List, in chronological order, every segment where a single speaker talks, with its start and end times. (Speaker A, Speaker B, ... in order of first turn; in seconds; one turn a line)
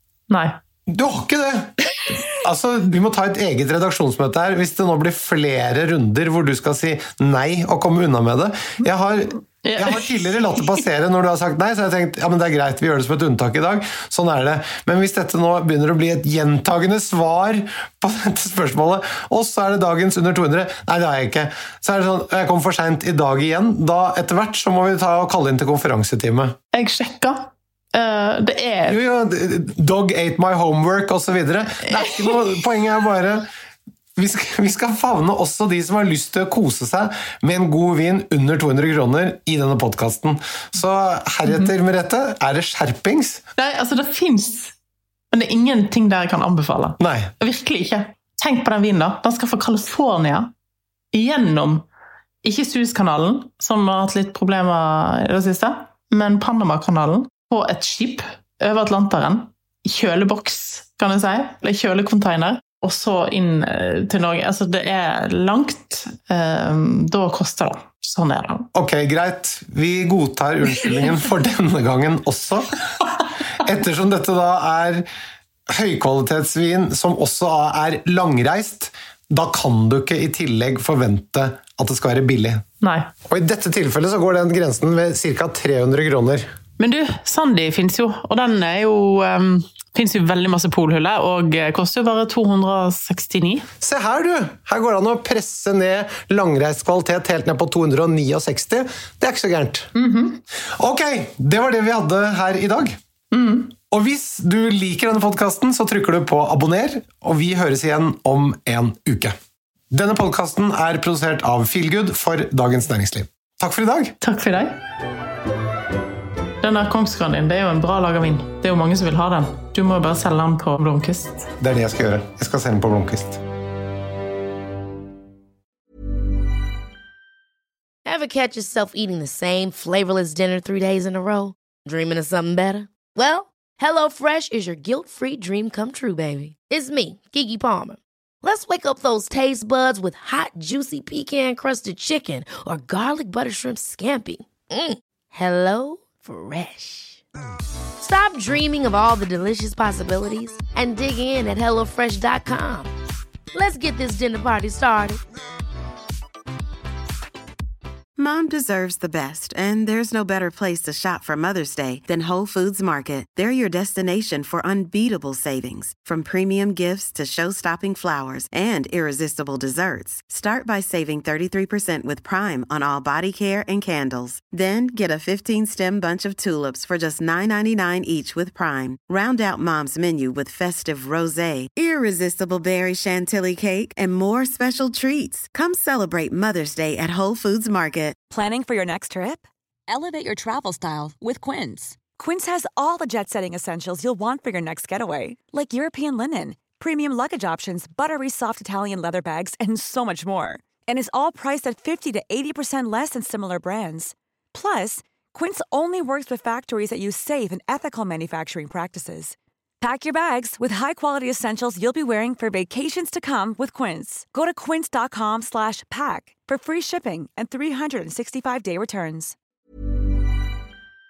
Speaker A: 0.3-0.6
Speaker B: 0.9-26.6
Speaker A: 9.6-10.8
Speaker A: 26.7-29.0
Speaker B: 28.9-33.5
Speaker B: 34.2-43.4
Speaker A: 43.6-44.7
Speaker A: 45.3-50.5
Speaker B: 47.0-47.3
Speaker A: 51.1-51.9
Speaker A: 52.4-68.7
Speaker B: 68.7-75.1
Speaker B: 75.7-82.7
Speaker A: 82.8-83.1
Speaker B: 83.3-86.5
Speaker A: 86.8-93.7
Speaker B: 93.8-99.9
Speaker A: 100.0-100.4
Speaker B: 100.7-103.0
Speaker A: 103.3-103.7
Speaker B: 103.9-109.4
Speaker B: 109.9-114.2
Speaker A: 114.2-114.8
Speaker A: 116.6-121.4
Speaker B: 121.6-123.4
Speaker C: 128.1-147.2
Speaker C: 148.0-152.9
Speaker C: 153.5-155.2
Speaker D: 158.2-188.2
Speaker E: 188.3-219.3